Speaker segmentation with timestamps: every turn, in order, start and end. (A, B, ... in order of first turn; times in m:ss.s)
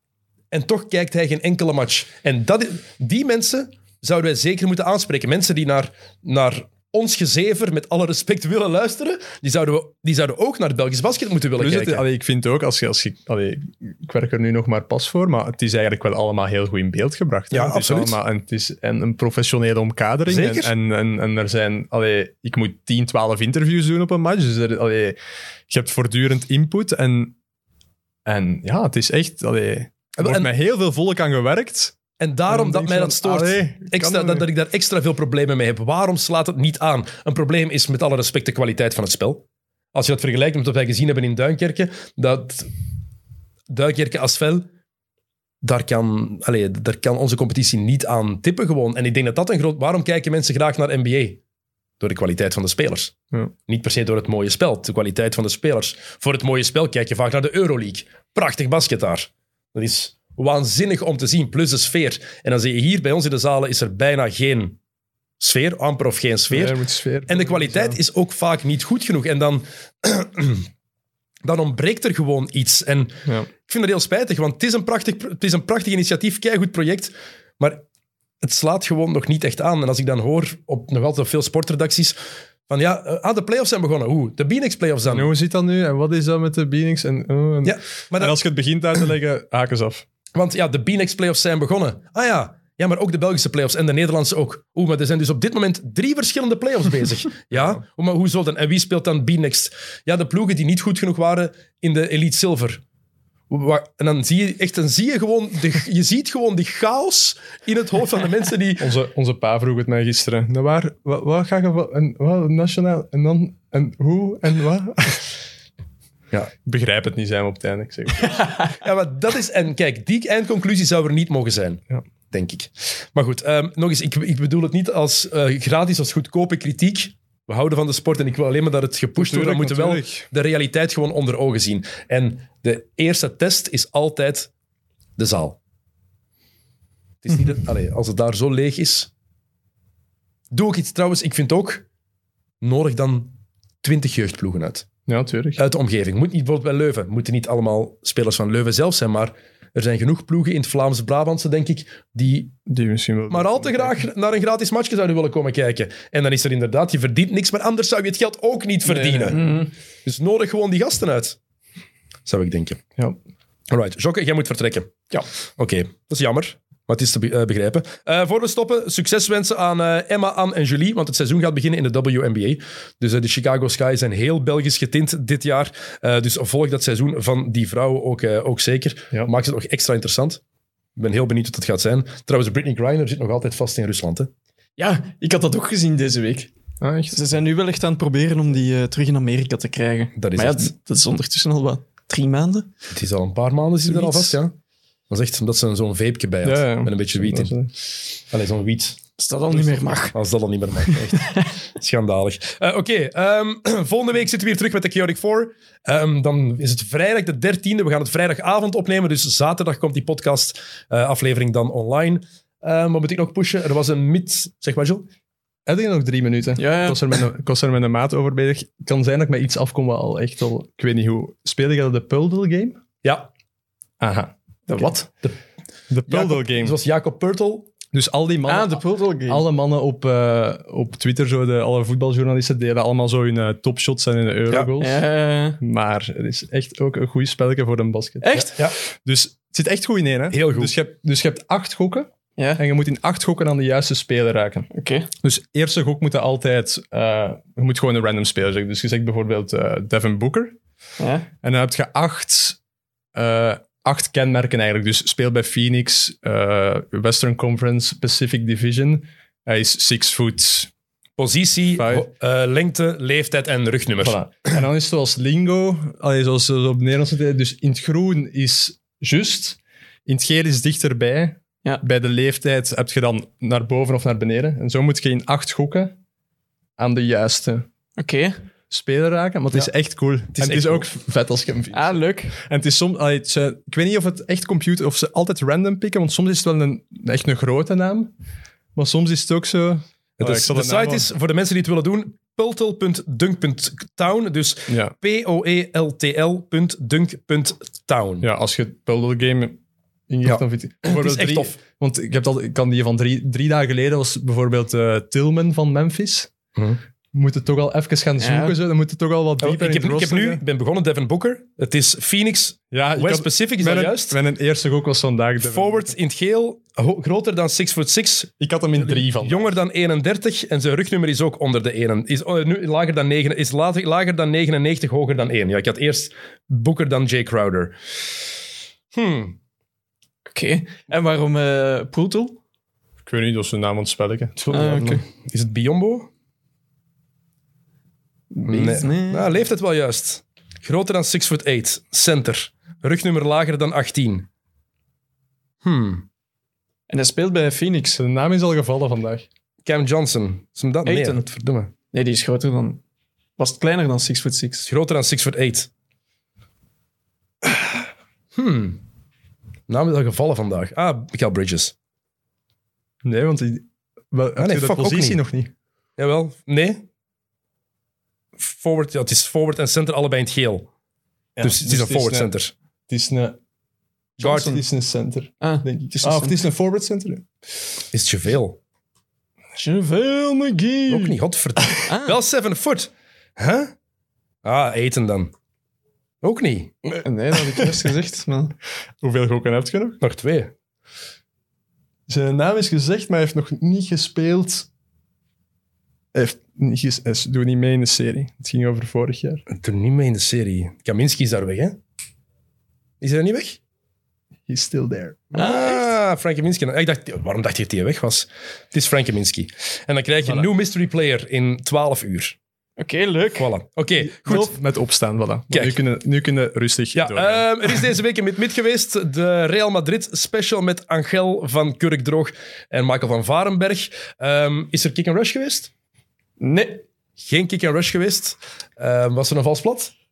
0:00.5-0:12.0 A
0:11.6-0:25.2 B
0:17.5-0:18.2 A
0:20.3-0:20.7 A
0:25.7-0:27.4 B
0:28.2-0:34.4 B
0:30.2-0:30.5 A
0:32.2-0:39.4 A
0:39.9-0:42.7 A
0:43.7-0:44.7 A
0:45.6-0:51.4 A
0:52.0-1:04.8 A
1:05.4-1:06.8 A
1:06.5-1:08.0 B
1:07.3-1:10.7 A
1:11.4-1:17.8 A
1:18.4-1:25.3 A
1:25.1-1:30.0 B
1:27.6-1:28.4 A
1:30.3-1:42.8 A
1:43.5-1:48.9 A
1:48.8-1:55.3 B
1:56.6-1:58.4 B
1:58.7-2:14.5 A
2:09.2-2:10.3 B
2:15.2-2:15.6 A
2:17.2-2:19.1 A
2:20.5-2:21.8 A
2:22.6-2:24.9 A
2:25.1-2:25.6 B
2:25.6-2:32.6 A
2:32.6-2:34.0 B
2:33.3-2:39.5 A
2:39.0-2:39.4 B
2:39.0-2:39.7 C
2:40.0-2:41.4 A
2:42.2-2:42.8 A
2:43.7-2:45.0 A
2:45.6-3:00.4 A
3:01.0-3:04.3 A
3:04.8-3:06.5 C
3:06.8-3:07.2 B
3:07.1-3:12.7 C
3:10.2-3:10.7 A
3:12.9-3:14.5 A
3:13.8-3:14.4 C
3:15.1-3:17.6 A
3:16.4-3:17.7 B
3:18.2-3:19.0 A
3:19.2-3:20.1 C
3:20.1-3:35.1 A
3:21.1-3:21.4 C
3:35.6-3:42.8 B
3:36.6-3:37.0 C
3:43.0-3:43.3 A
3:44.0-3:44.9 B
3:44.7-3:45.1 C
3:45.9-3:46.8 B
3:46.1-3:47.7 A
3:47.9-3:55.0 B
3:48.5-3:49.5 C
3:54.8-3:55.6 C
3:55.6-4:04.7 B
3:58.2-3:58.6 C
4:00.3-4:00.7 A
4:04.7-4:05.1 C
4:05.2-4:10.6 B
4:11.0-4:11.3 C
4:11.4-4:12.6 B
4:13.1-4:20.7 B
4:21.2-4:24.2 A
4:21.8-4:22.1 B
4:24.0-4:36.0 B
4:36.8-4:37.7 B
4:38.0-4:38.4 C
4:38.7-4:48.1 B
4:40.4-4:40.8 A
4:41.7-4:42.4 C
4:48.7-4:51.1 B
4:50.2-4:58.3 A
4:54.7-4:54.9 B
4:58.2-5:06.3 B
5:00.2-5:01.6 A
5:07.1-5:10.4 B
5:08.2-5:08.6 C
5:09.4-5:14.2 A
5:12.7-5:15.9 B
5:15.4-5:27.8 A
5:18.4-5:19.6 B
5:28.9-5:29.4 A
5:30.3-5:32.4 C
5:33.0-5:35.0 B
5:34.5-5:36.1 A
5:34.5-5:35.0 C
5:38.3-5:39.3 C
5:38.4-5:44.3 A
5:45.6-5:46.0 A
5:46.9-5:48.0 C
5:48.0-5:49.2 B
5:49.6-5:51.7 A
5:50.8-5:51.2 C
5:51.9-5:52.8 C
5:53.4-5:54.7 C
5:54.7-5:55.7 A
5:58.3-5:58.8 A
5:59.7-6:01.7 A
6:03.0-6:05.5 B
6:04.4-6:05.2 A
6:06.0-6:06.8 A
6:08.4-6:10.7 A
6:11.4-6:12.3 B
6:11.4-6:12.5 A
6:12.9-6:13.4 B
6:14.2-6:14.6 A
6:14.2-6:14.6 C
6:14.2-6:17.2 B
6:15.4-6:16.4 C
6:17.9-6:18.6 A
6:19.5-6:21.2 C
6:20.9-6:23.7 A
6:21.8-6:22.2 C
6:24.4-6:25.3 A
6:26.2-6:27.0 A
6:27.0-6:28.5 C
6:29.0-6:30.0 B
6:30.0-6:30.5 A
6:32.1-6:34.7 B
6:36.1-6:39.4 B
6:39.5-6:41.8 A
6:43.0-6:43.6 A
6:44.5-6:45.3 B
6:45.3-6:52.4 A
6:45.4-6:45.9 C
6:52.8-6:53.5 C
6:53.4-6:54.5 A
6:54.0-6:57.8 B
6:54.2-6:54.5 C
6:55.5-6:55.8 A
6:56.9-7:05.7 A
7:06.4-7:06.8 C
7:07.2-7:09.9 A